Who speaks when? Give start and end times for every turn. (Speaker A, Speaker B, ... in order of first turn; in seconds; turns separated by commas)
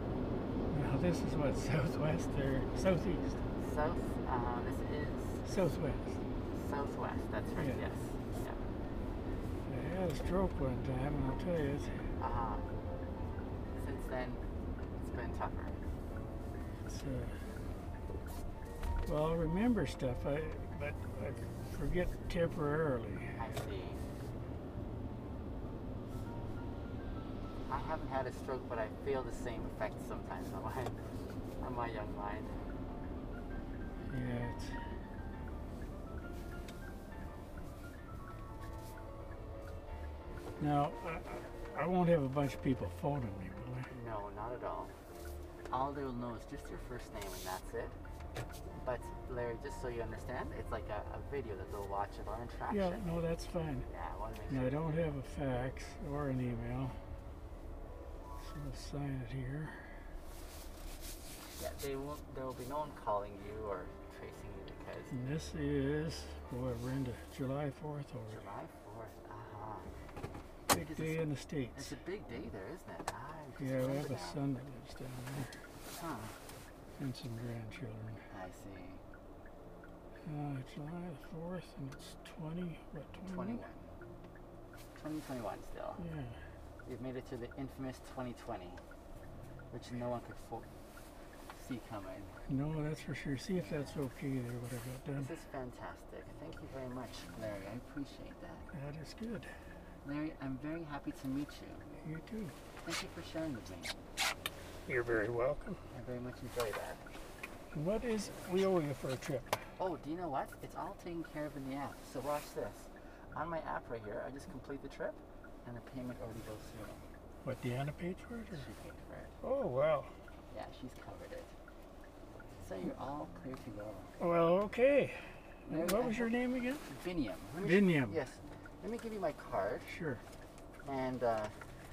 Speaker A: 0.7-3.4, Speaker B: 3.6-5.5, Speaker A: 5.4-6.2, Speaker B: 6.5-8.6, Speaker A: 7.6-7.8, Speaker A: 9.7-12.0, Speaker B: 12.2-12.7, Speaker B: 13.7-14.4, Speaker B: 15.0-15.8, Speaker A: 16.9-17.4, Speaker A: 19.1-23.4, Speaker B: 23.4-24.1, Speaker B: 27.7-31.0, Speaker B: 31.6-32.5, Speaker A: 34.1-34.8, Speaker A: 40.6-43.9, Speaker B: 43.9-44.9, Speaker B: 45.7-48.0, Speaker B: 48.8-53.1, Speaker A: 52.7-53.9, Speaker B: 53.9-55.1, Speaker A: 54.5-57.0, Speaker A: 58.4-59.9, Speaker B: 61.6-65.1, Speaker A: 65.1-68.4, Speaker B: 68.3-69.9, Speaker A: 70.7-71.9, Speaker B: 70.7-74.4, Speaker A: 73.6-75.5, Speaker B: 75.9-76.3, Speaker A: 77.0-78.2, Speaker B: 78.3-79.0, Speaker A: 80.2-83.6, Speaker B: 83.2-83.9, Speaker B: 85.0-86.0, Speaker A: 86.0-86.4, Speaker B: 86.8-88.8, Speaker B: 89.7-90.7, Speaker B: 91.5-92.3, Speaker A: 92.5-95.3, Speaker B: 93.5-94.1, Speaker B: 95.1-98.7, Speaker A: 98.7-99.5, Speaker B: 100.0-102.0, Speaker A: 102.0-102.5, Speaker B: 102.8-103.9, Speaker A: 104.9-105.8, Speaker B: 105.9-107.0, Speaker A: 107.7-109.6, Speaker B: 109.8-117.0, Speaker A: 117.4-118.7, Speaker B: 118.5-119.4, Speaker A: 119.4-120.1, Speaker B: 120.5-121.5, Speaker B: 122.6-124.1, Speaker A: 124.2-126.8, Speaker B: 125.7-126.3, Speaker B: 126.9-129.9, Speaker A: 127.6-128.2, Speaker A: 129.9-130.2, Speaker B: 130.8-131.5